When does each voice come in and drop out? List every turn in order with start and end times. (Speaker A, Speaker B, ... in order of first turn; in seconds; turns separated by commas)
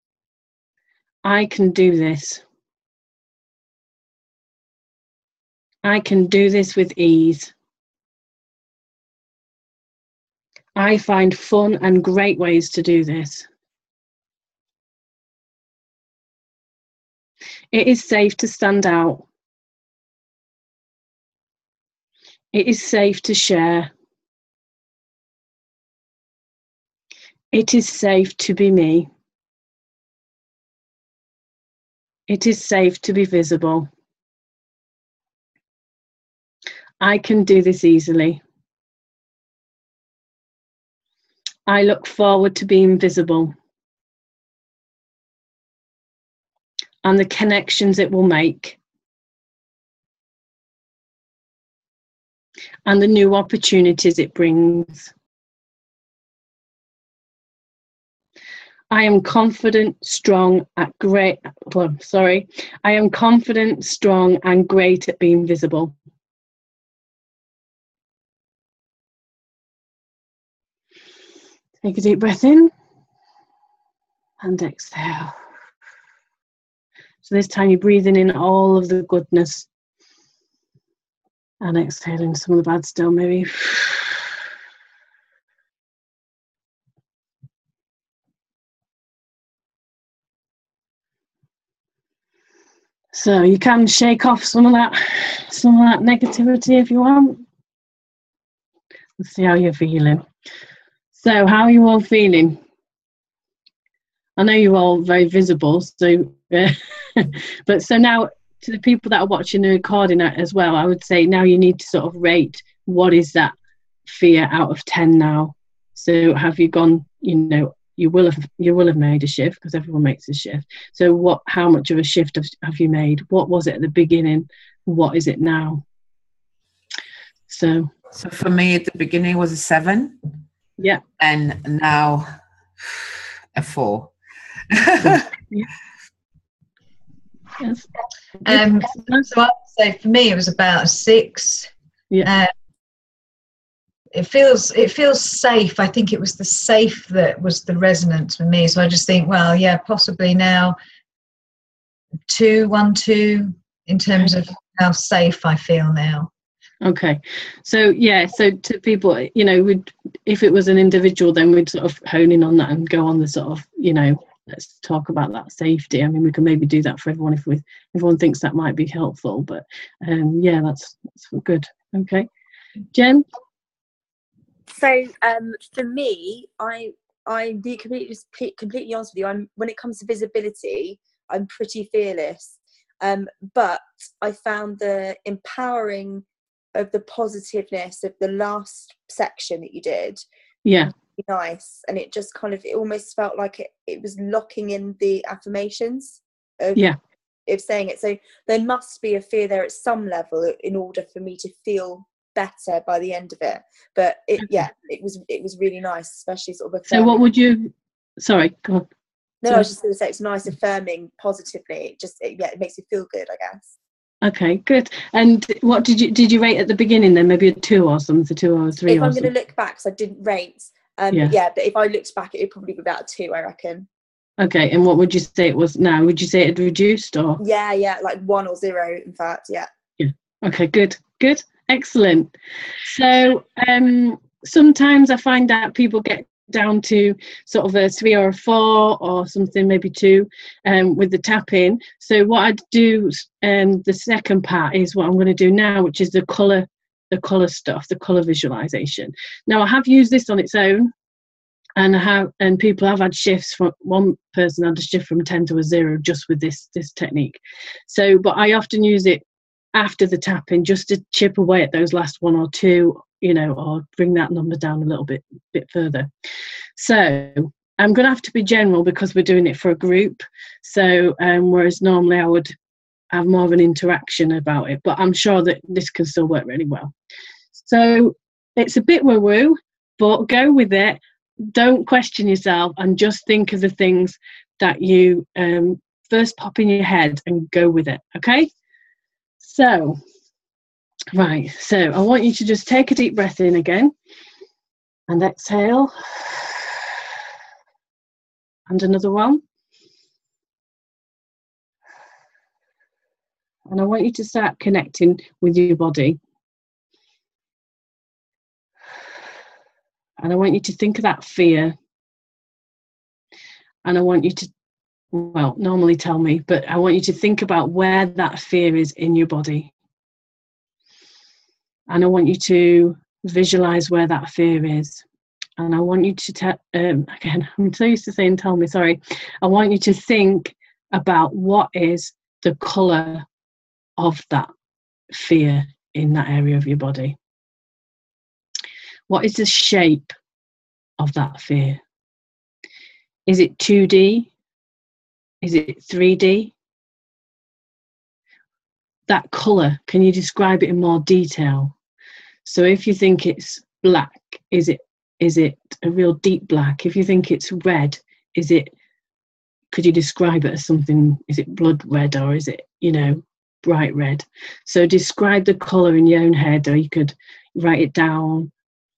Speaker A: 1.2-2.4, Speaker A: 5.8-7.5, Speaker A: 10.8-13.5, Speaker A: 17.7-19.2, Speaker A: 22.5-23.9, Speaker A: 27.5-29.1, Speaker A: 32.3-33.9, Speaker A: 37.0-38.4, Speaker A: 41.7-43.5, Speaker A: 47.0-48.8, Speaker A: 52.9-55.1, Speaker A: 58.9-65.9, Speaker A: 71.8-72.7, Speaker A: 74.4-75.3, Speaker A: 77.2-79.7, Speaker A: 81.6-84.3, Speaker A: 93.1-97.4, Speaker A: 99.2-100.2, Speaker A: 101.1-102.6, Speaker A: 104.4-113.5, Speaker A: 114.0-125.8, Speaker A: 127.5-127.9, Speaker B: 128.1-130.2, Speaker B: 131.2-132.3, Speaker B: 133.5-134.1, Speaker B: 134.7-135.3, Speaker A: 137.6-137.9, Speaker A: 138.4-139.3, Speaker C: 138.4-141.7, Speaker C: 142.2-142.5, Speaker C: 144.1-150.8, Speaker C: 152.3-156.3, Speaker A: 156.8-172.3, Speaker A: 172.9-173.2, Speaker D: 174.7-190.2, Speaker A: 190.6-190.9, Speaker D: 191.2-196.8, Speaker D: 197.5-207.2, Speaker A: 206.9-208.9, Speaker D: 209.4-213.7, Speaker A: 214.2-219.3, Speaker D: 218.9-223.9, Speaker A: 224.4-227.4, Speaker D: 227.4-229.7, Speaker A: 230.0-250.9, Speaker A: 251.8-266.1, Speaker A: 266.8-272.5, Speaker A: 273.1-276.9, Speaker A: 277.5-288.5, Speaker A: 289.4-290.0, Speaker A: 291.1-293.9, Speaker A: 295.1-296.7, Speaker A: 298.7-299.4, Speaker A: 303.7-306.2, Speaker A: 310.2-311.7, Speaker A: 313.8-314.5, Speaker A: 315.1-319.7, Speaker A: 321.9-325.0, Speaker A: 325.6-333.2, Speaker A: 334.0-334.5, Speaker A: 335.1-337.1, Speaker A: 339.1-340.1, Speaker A: 341.0-341.8, Speaker A: 343.3-344.3, Speaker A: 345.4-346.5, Speaker A: 349.1-351.7, Speaker A: 352.4-358.7, Speaker A: 359.7-368.5